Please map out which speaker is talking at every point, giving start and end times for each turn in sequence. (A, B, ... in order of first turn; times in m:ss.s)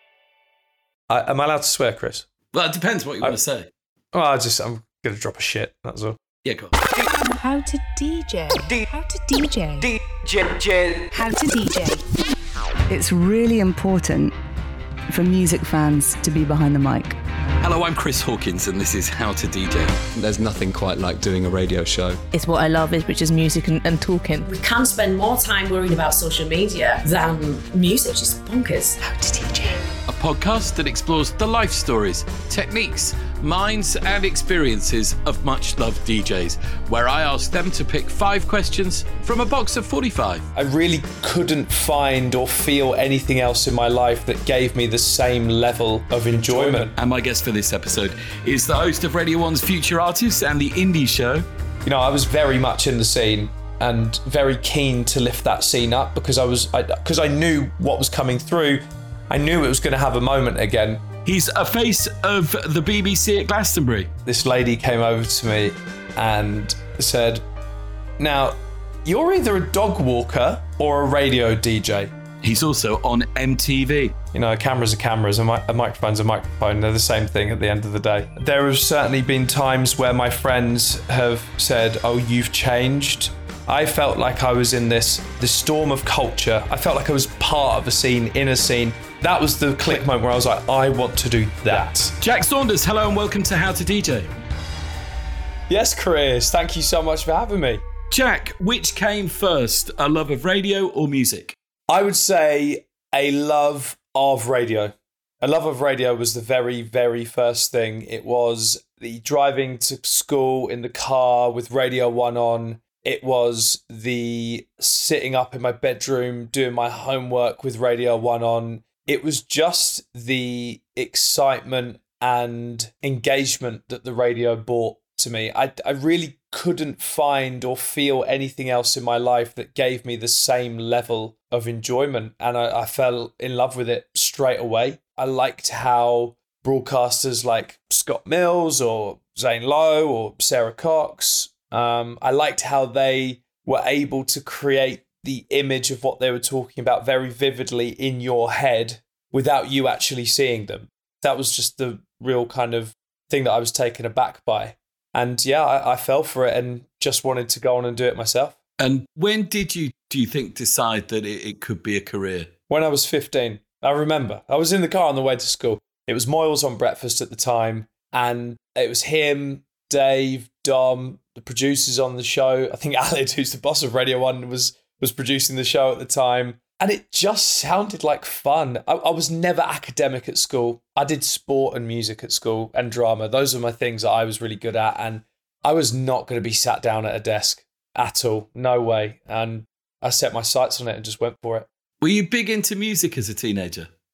0:01.1-0:02.3 A
0:02.5-0:03.7 B
0:04.1-0:06.2 A
0:06.4-0:06.8 B
0:07.4-0:12.0 C
0:12.9-0:14.3 D
0:15.1-0:17.1 D
0:17.6-0:20.0 B
0:20.1-0:22.2 E
0:22.3-0:24.5 F
0:24.4-0:29.0 G
0:29.0-0:29.8 C
0:30.1-0:40.5 B
0:40.5-0:46.9 A
0:46.5-0:51.4 B
0:51.8-1:01.0 A
1:01.2-1:04.1 B
1:04.2-1:07.4 A
1:08.2-1:12.1 A
1:12.4-1:14.1 B
1:14.3-1:32.1 A
1:31.7-1:34.3 B
1:35.7-1:37.8 A
1:38.1-1:41.6 B
1:41.9-2:38.6 A
2:38.8-2:42.5 B
2:42.7-3:11.7 A
3:12.0-3:13.9 B